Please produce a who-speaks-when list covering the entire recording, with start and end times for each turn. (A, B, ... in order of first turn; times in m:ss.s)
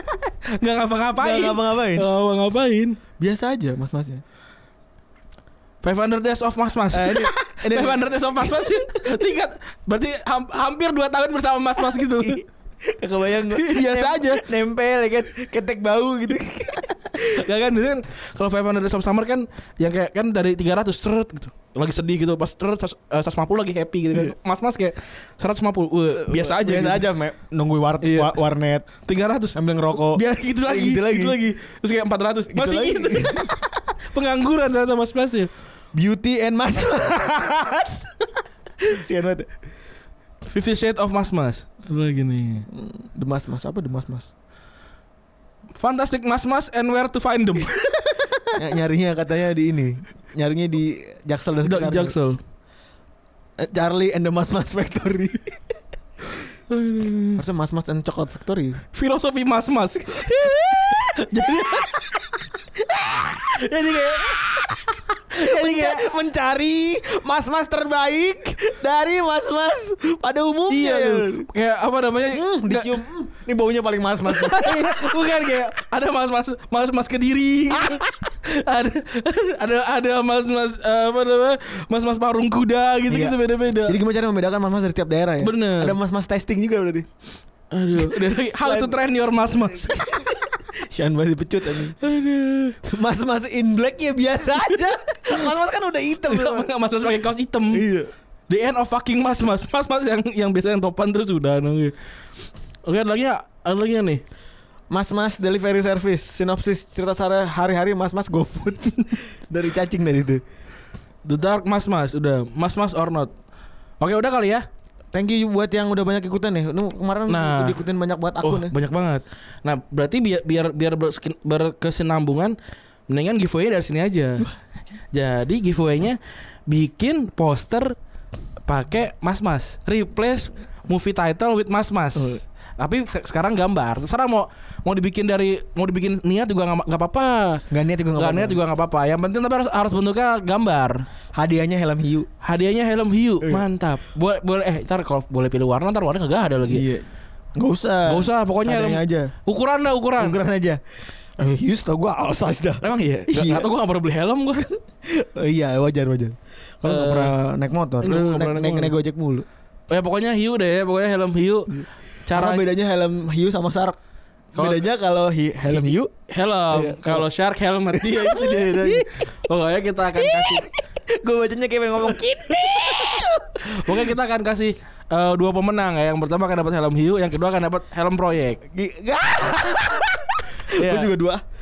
0:00.5-0:03.0 A
0:01.2-0:02.1 B
0:03.2-0:04.2 B
0:05.8-0:12.4 A
0:06.9-0:08.9 B
0:12.1-0:17.4 B
0:13.4-0:14.4 A
0:17.3-0:27.1 A
0:26.1-0:28.9 B
0:28.0-0:28.4 A
0:29.0-0:33.6 A
0:29.5-0:31.4 B
0:32.5-0:33.5 B
0:34.1-0:35.5 A
0:35.9-0:38.1 B
0:38.8-0:39.5 B
0:40.4-0:42.6 A
0:42.7-0:44.3 B
0:45.8-0:48.8 A
0:48.6-0:52.1 B
0:51.6-0:52.4 A
0:53.6-0:55.6 B
0:56.7-0:57.4 A
0:57.4-0:58.8 B
0:58.9-1:02.1 A
1:00.2-1:01.9 B
1:02.8-1:03.6 B
1:03.5-1:04.8 A
1:04.5-1:04.8 B
1:05.3-1:11.5 B
1:05.4-1:06.1 A
1:10.7-1:13.0 A
1:12.3-1:15.1 B
1:14.2-1:24.0 A
1:23.1-1:27.1 B
1:25.4-1:26.0 A
1:27.7-1:30.2 A
1:28.0-1:29.0 B
1:29.9-1:32.0 B
1:32.0-1:32.8 A
1:32.8-1:36.7 B
1:36.2-1:37.8 A
1:37.7-1:38.1 B
1:38.5-1:42.0 A
1:42.8-1:44.2 A
1:44.9-1:50.4 B
1:51.2-1:53.3 A
1:54.0-1:54.7 A
1:55.1-1:58.7 B
1:57.3-1:57.8 A
1:58.4-2:02.6 A
2:03.1-2:04.5 A
2:05.1-2:08.0 A
2:08.6-2:17.6 A
2:17.7-2:18.6 B
2:18.2-2:21.0 A
2:21.3-2:22.3 B
2:22.4-2:26.8 A
2:26.6-2:27.0 B
2:27.6-2:29.3 B
2:28.0-2:30.4 A
2:30.2-2:30.8 B
2:31.4-2:33.7 B
2:32.8-2:34.7 A
2:35.1-2:39.4 B
2:36.8-2:37.3 A
2:38.0-2:39.0 A
2:39.9-2:41.7 A
2:41.8-2:44.0 B
2:42.2-2:42.7 A
2:44.5-2:46.1 B
2:44.6-2:44.9 A
2:45.7-2:50.6 A
2:46.7-2:47.2 B
2:48.0-2:49.0 B
2:50.2-2:54.0 B
2:53.7-2:58.6 A
2:58.7-3:01.4 B
3:00.7-3:01.1 A